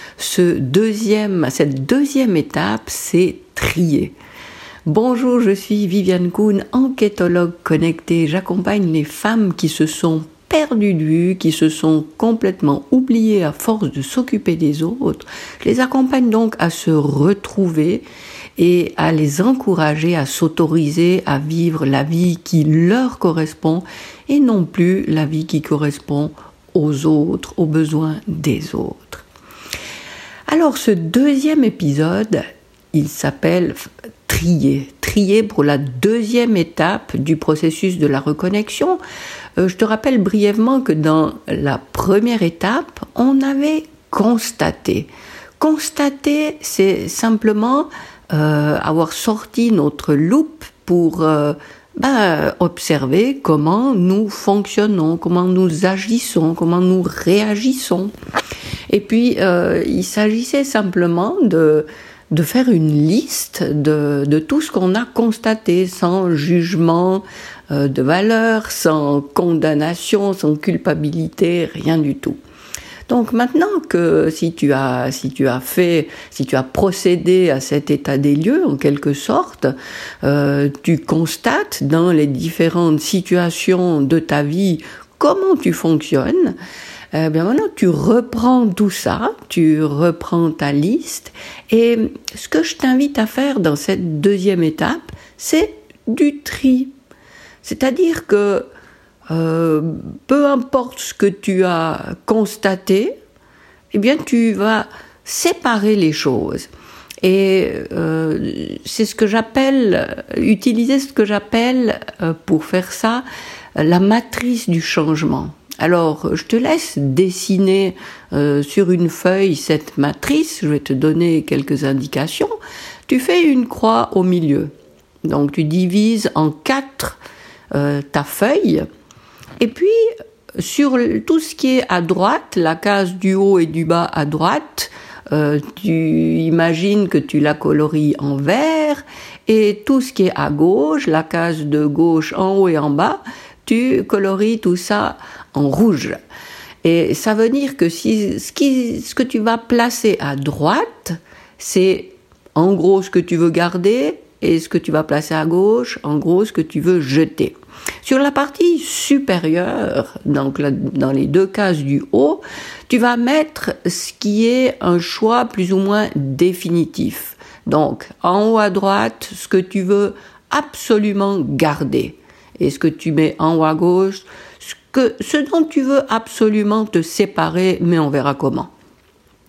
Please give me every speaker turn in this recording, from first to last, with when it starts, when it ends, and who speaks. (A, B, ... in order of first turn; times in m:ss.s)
0:00.2-0:04.1 A
0:04.8-0:18.0 A
0:18.6-0:29.2 A
0:30.5-0:39.0 A
0:39.6-0:58.1 A
0:58.9-1:12.4 A
1:13.1-1:26.6 A
1:27.1-1:36.9 A
1:37.6-1:38.7 A
1:39.3-1:43.1 A
1:43.9-1:46.7 A
1:47.2-1:53.2 A
1:53.8-2:02.5 A
2:03.1-2:04.7 A
2:05.2-2:07.2 A
2:07.7-2:08.8 A
2:09.6-2:10.0 A
2:10.6-2:26.2 A
2:26.8-2:58.7 A